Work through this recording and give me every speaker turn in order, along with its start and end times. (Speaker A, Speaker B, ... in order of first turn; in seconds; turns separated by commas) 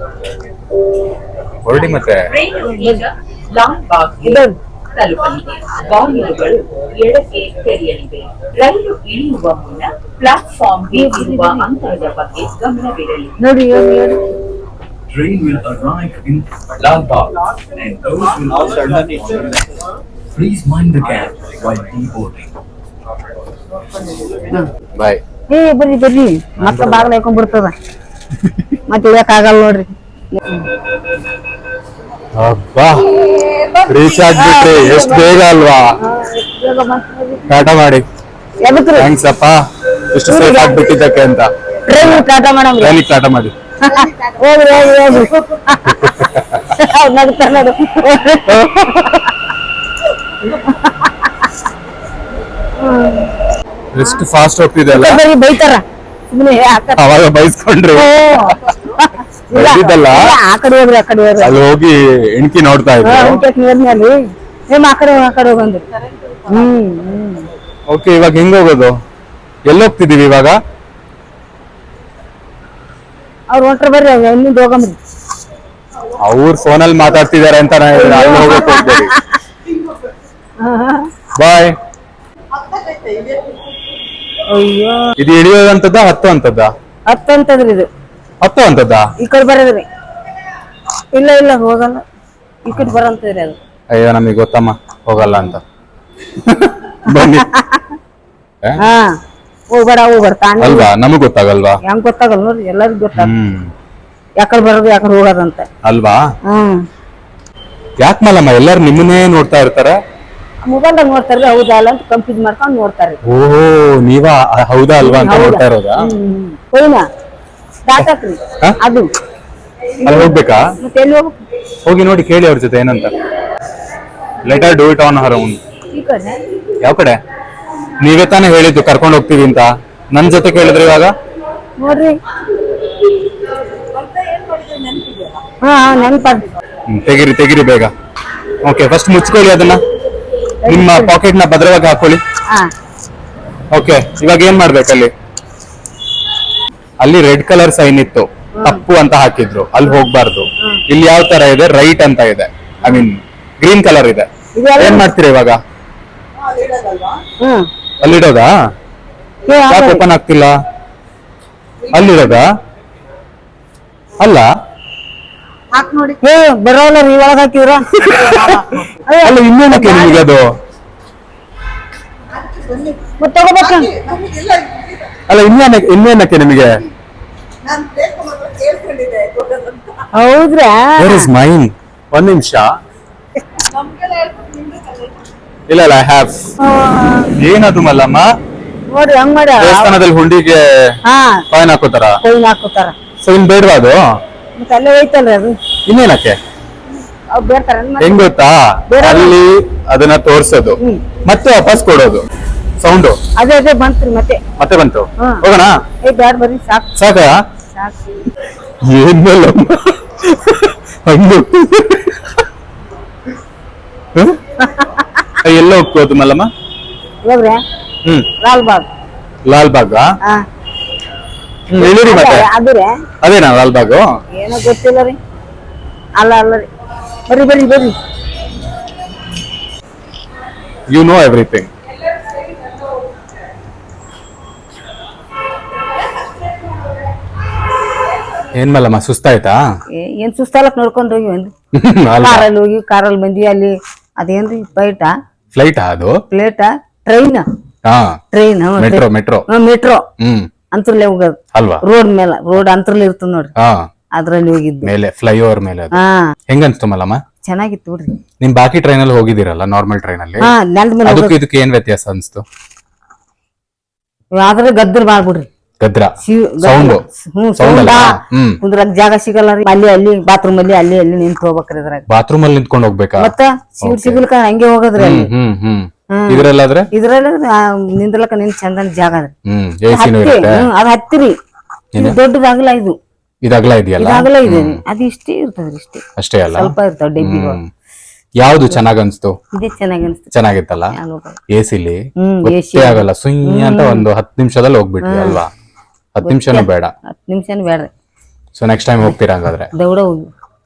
Speaker A: 1.6-2.3, Speaker B: 2.2-13.4, Speaker C: 2.6-3.0, Speaker C: 4.2-4.6, Speaker C: 10.9-11.7, Speaker C: 13.4-14.3, Speaker D: 15.1-19.7, Speaker E: 18.1-19.8, Speaker A: 18.7-19.2, Speaker D: 20.3-22.5, Speaker E: 23.8-24.5, Speaker A: 24.9-25.2, Speaker C: 25.5-27.7, Speaker A: 26.6-27.1, Speaker C: 28.9-30.7, Speaker A: 32.4-33.1, Speaker C: 33.3-35.4, Speaker A: 33.9-35.9, Speaker C: 36.0-37.5, Speaker A: 37.5-38.0, Speaker C: 38.6-39.1, Speaker A: 38.9-39.6, Speaker A: 40.1-42.3, Speaker C: 40.2-40.9, Speaker C: 41.9-43.0, Speaker A: 42.8-43.5, Speaker C: 43.8-49.2, Speaker E: 43.9-45.4, Speaker A: 45.9-46.6, Speaker A: 48.5-49.0, Speaker C: 50.5-51.2, Speaker C: 52.8-53.3, Speaker A: 53.9-55.2, Speaker C: 54.0-54.2, Speaker C: 54.9-57.0, Speaker A: 57.0-58.1, Speaker C: 58.0-61.6, Speaker A: 59.5-60.2, Speaker A: 61.4-63.4, Speaker C: 63.0-65.9, Speaker E: 65.9-66.7, Speaker C: 66.5-67.5, Speaker A: 67.9-68.9, Speaker A: 69.7-70.5, Speaker C: 73.5-75.0, Speaker A: 76.2-79.1, Speaker C: 77.9-79.3, Speaker E: 78.2-78.8, Speaker E: 79.6-80.1, Speaker C: 80.6-81.1, Speaker A: 81.4-81.8, Speaker E: 82.5-83.6, Speaker C: 84.5-85.0, Speaker A: 85.2-86.7, Speaker C: 87.1-87.9, Speaker A: 88.4-89.1, Speaker C: 89.2-89.8, Speaker C: 91.1-92.0, Speaker C: 92.6-93.6, Speaker A: 93.9-95.6, Speaker A: 96.4-97.5, Speaker C: 97.1-97.9, Speaker C: 98.8-99.1, Speaker C: 99.7-100.9, Speaker A: 100.6-101.8, Speaker C: 101.8-103.3, Speaker A: 103.2-103.7, Speaker C: 104.4-105.7, Speaker A: 105.8-106.2, Speaker C: 106.5-106.8, Speaker A: 108.0-110.0, Speaker C: 110.6-113.2, Speaker A: 113.2-116.0, Speaker C: 115.0-117.0, Speaker C: 117.8-119.1, Speaker C: 120.0-121.3, Speaker A: 120.0-120.6, Speaker A: 121.8-123.1, Speaker A: 124.4-125.6, Speaker C: 125.9-126.4, Speaker A: 126.8-127.2, Speaker A: 128.0-131.1, Speaker C: 131.8-132.2, Speaker E: 133.8-135.4, Speaker C: 135.6-136.5, Speaker A: 136.9-137.9, Speaker A: 138.6-139.8, Speaker C: 140.6-141.1, Speaker A: 140.7-142.2, Speaker A: 143.7-145.1, Speaker A: 147.0-154.3, Speaker C: 148.6-148.8, Speaker C: 154.6-155.1, Speaker A: 154.8-155.6, Speaker E: 156.4-157.2, Speaker C: 157.4-157.7, Speaker A: 158.0-158.5, Speaker C: 159.5-160.1, Speaker A: 159.7-160.5, Speaker E: 161.8-162.4, Speaker A: 161.9-162.5, Speaker A: 164.2-164.5, Speaker E: 165.7-166.2, Speaker C: 166.2-168.4, Speaker E: 168.1-169.0, Speaker A: 168.1-168.6, Speaker C: 169.1-170.1, Speaker A: 169.2-170.5, Speaker E: 172.3-175.2, Speaker C: 173.2-173.9, Speaker A: 175.3-176.8, Speaker E: 177.6-180.1, Speaker C: 180.1-181.3, Speaker A: 181.0-182.7, Speaker E: 183.6-185.2, Speaker A: 185.7-186.5, Speaker C: 186.6-187.3, Speaker A: 187.4-188.2, Speaker C: 188.9-189.9, Speaker A: 189.6-190.7, Speaker C: 191.1-191.4, Speaker A: 191.5-192.2, Speaker C: 192.2-192.9, Speaker A: 193.2-194.0, Speaker C: 194.6-195.6, Speaker A: 195.9-196.4, Speaker C: 197.3-198.3, Speaker A: 198.0-202.2, Speaker C: 198.9-199.4, Speaker A: 202.8-203.2, Speaker C: 203.4-204.4, Speaker A: 204.6-205.7, Speaker C: 206.0-206.9, Speaker A: 206.9-207.4, Speaker C: 207.7-208.0, Speaker A: 208.8-212.4, Speaker A: 214.2-214.4, Speaker C: 214.8-215.2, Speaker A: 215.4-216.5, Speaker C: 217.2-217.6, Speaker C: 218.4-218.9, Speaker A: 219.4-220.1, Speaker A: 221.7-222.5, Speaker C: 221.8-222.9, Speaker A: 223.2-224.1, Speaker C: 224.3-225.2, Speaker C: 226.2-226.7, Speaker C: 227.3-227.9, Speaker A: 230.9-231.7, Speaker A: 238.5-239.6, Speaker C: 239.9-241.5, Speaker A: 241.7-242.5, Speaker C: 242.2-245.1, Speaker A: 245.5-246.2, Speaker C: 246.3-247.4, Speaker A: 247.8-248.2, Speaker C: 248.3-250.0, Speaker A: 248.8-249.5, Speaker A: 250.2-250.5, Speaker C: 250.7-253.5, Speaker A: 251.5-251.8, Speaker A: 253.6-253.9, Speaker C: 254.2-254.9, Speaker A: 254.8-257.2, Speaker C: 255.9-256.3, Speaker C: 257.4-258.2, Speaker A: 258.4-260.5, Speaker C: 260.4-261.4, Speaker A: 261.0-262.4, Speaker C: 264.3-265.5, Speaker A: 265.8-267.0, Speaker C: 266.2-272.0, Speaker A: 267.6-268.6, Speaker A: 272.1-274.2, Speaker C: 273.2-275.3, Speaker A: 275.0-276.9, Speaker C: 276.1-279.3, Speaker A: 279.4-280.6, Speaker C: 279.9-281.4, Speaker C: 281.9-282.9, Speaker A: 283.4-284.8, Speaker C: 284.0-287.6, Speaker A: 286.2-287.7, Speaker A: 288.4-289.3, Speaker C: 289.5-290.3, Speaker A: 290.3-290.9, Speaker C: 290.9-291.4, Speaker A: 291.5-295.5, Speaker C: 292.2-294.1, Speaker C: 295.0-295.4, Speaker A: 296.1-296.9, Speaker C: 296.2-297.9, Speaker A: 298.6-299.7, Speaker C: 299.7-300.3